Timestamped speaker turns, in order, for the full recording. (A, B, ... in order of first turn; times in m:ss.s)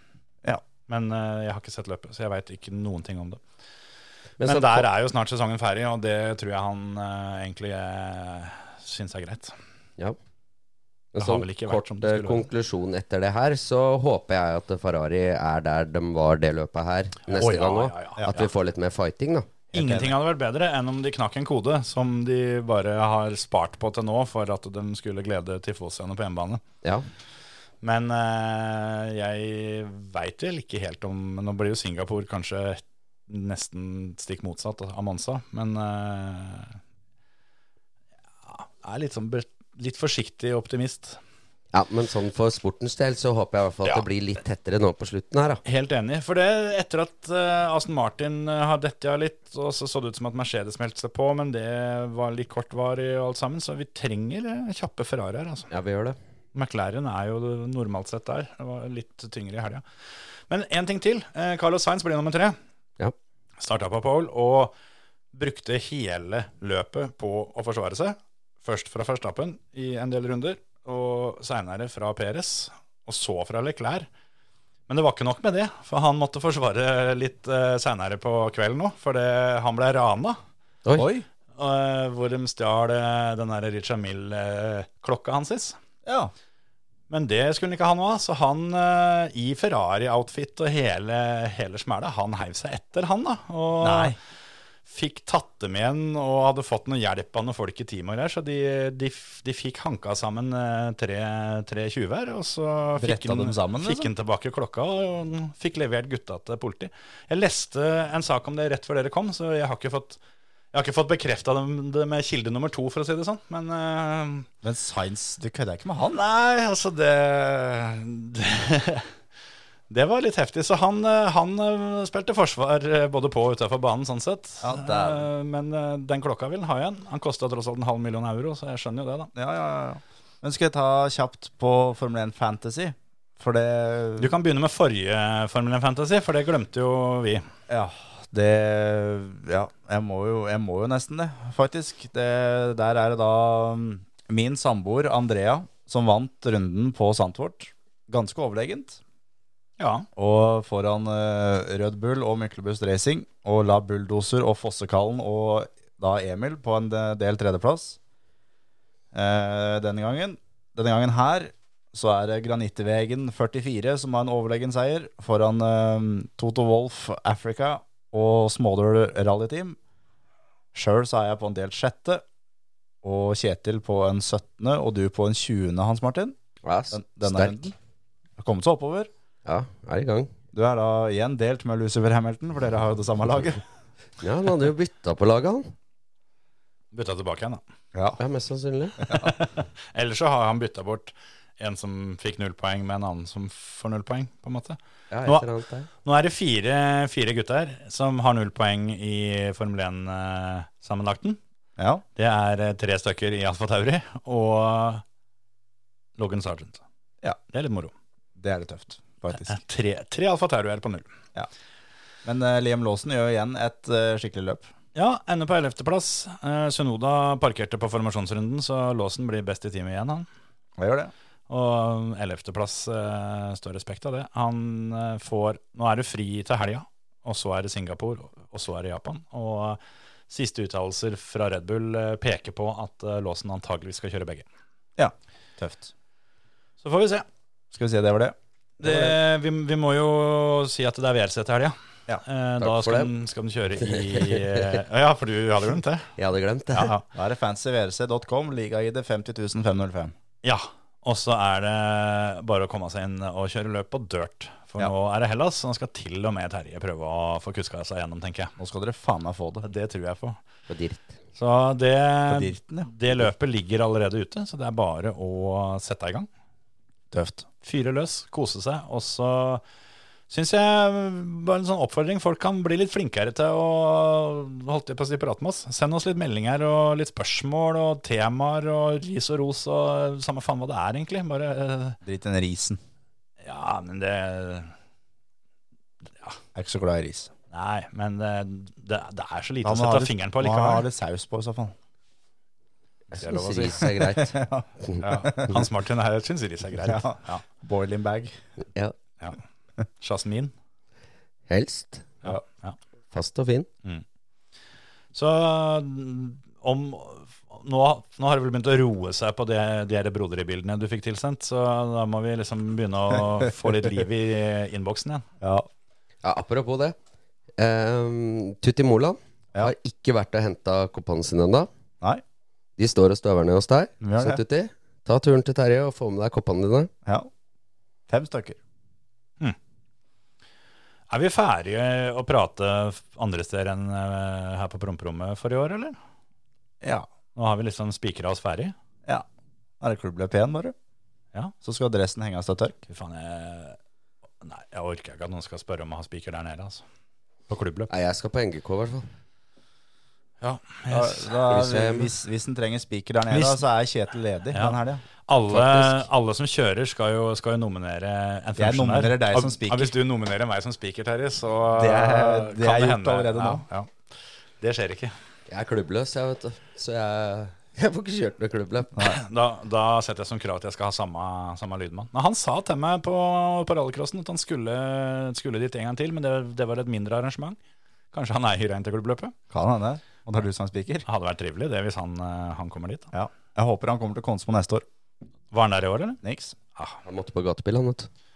0:00.9-0:03.4 A
0:04.4-0:04.8 B
0:04.4-0:09.5 A
0:11.1-0:19.5 B
0:11.2-0:12.5 A
0:17.3-0:18.5 A
0:19.7-0:20.2 C
0:19.7-0:26.6 A
0:27.8-0:36.8 A
0:38.4-0:41.2 A
0:41.7-0:45.6 B
0:45.6-0:55.7 A
0:55.7-0:56.2 B
0:56.5-0:59.8 A
1:00.5-1:02.6 A
1:03.6-1:04.7 A
1:05.3-1:14.1 A
1:14.9-1:20.4 A
1:20.9-1:21.2 C
1:21.6-1:25.8 A
1:26.0-1:26.3 C
1:27.1-1:34.2 A
1:33.8-1:34.2 C
1:34.9-1:50.2 A
1:43.0-1:44.1 C
1:50.7-1:54.5 A
1:54.6-1:56.2 C
1:56.1-1:59.1 A
1:59.9-2:09.3 A
2:04.6-2:05.3 C
2:09.3-2:14.3 C
2:14.2-2:17.5 A
2:17.7-2:29.0 C
2:29.8-2:30.1 A
2:30.2-2:38.0 C
2:39.1-2:49.8 C
2:50.7-2:52.2 C
2:53.0-2:56.4 C
2:56.6-2:57.7 B
2:56.9-2:57.7 C
2:58.4-2:59.1 C
2:59.4-3:00.3 B
3:00.5-3:03.6 C
3:04.2-3:05.7 B
3:06.9-3:07.6 A
3:07.9-3:08.2 C
3:08.2-3:09.2 B
3:09.0-3:09.4 C
3:09.1-3:15.5 A
3:15.1-3:15.9 B
3:16.0-3:21.4 A
3:21.8-3:22.0 C
3:22.2-3:25.0 A
3:26.2-3:26.8 A
3:27.5-3:27.9 A
3:28.4-3:29.6 C
3:29.4-3:31.1 A
3:32.2-3:34.7 C
3:34.9-3:40.3 A
3:40.8-3:41.1 C
3:41.5-3:49.8 A
3:50.3-3:54.4 A
3:55.0-3:55.9 C
3:56.8-3:57.2 A
3:57.7-3:59.2 C
3:58.8-4:06.1 A
4:02.6-4:03.1 B
4:03.8-4:04.8 B
4:06.2-4:06.9 B
4:06.7-4:07.0 A
4:07.1-4:10.1 C
4:10.4-4:18.5 A
4:18.6-4:19.6 C
4:19.6-4:20.4 A
4:20.7-4:21.2 B
4:21.4-4:26.3 A
4:22.3-4:22.9 C
4:27.1-4:27.4 C
4:27.6-4:29.6 A
4:30.3-4:42.0 A
4:42.0-4:42.8 C
4:43.4-4:44.7 A
4:46.5-4:47.3 C
4:47.5-4:50.8 A
4:49.6-4:51.7 C
4:53.1-4:53.9 A
4:53.1-4:54.4 B
4:53.6-4:55.6 C
4:55.0-4:57.4 A
4:56.8-4:58.3 C
5:00.0-5:00.5 A
5:01.5-5:02.1 B
5:02.2-5:02.8 A
5:03.1-5:03.7 B
5:05.1-5:15.2 A
5:15.4-5:15.7 C
5:16.2-5:17.0 B
5:17.6-5:21.7 B
5:22.8-5:26.9 B
5:24.0-5:24.4 C
5:28.1-5:28.6 C
5:31.1-5:36.0 A
5:36.8-5:37.1 C
5:37.3-5:38.7 A
5:39.8-5:40.7 C
5:41.6-5:42.8 C
5:42.9-5:43.8 A
5:44.4-5:46.8 A
5:47.5-5:47.9 A
5:47.9-5:49.1 B
5:50.4-5:51.3 A
5:50.9-5:55.0 C
5:51.5-5:52.1 B
5:53.3-5:53.6 A
5:54.5-6:03.9 A
5:55.5-5:56.0 B
5:58.6-5:59.9 C
6:01.7-6:03.6 C
6:04.6-6:05.1 A
6:05.5-6:09.0 B
6:09.0-6:17.6 A
6:18.1-6:19.3 A
6:19.5-6:21.0 C
6:21.1-6:23.1 A
6:23.1-6:24.8 C
6:25.5-6:26.2 A
6:26.2-6:26.6 C
6:27.0-6:28.1 B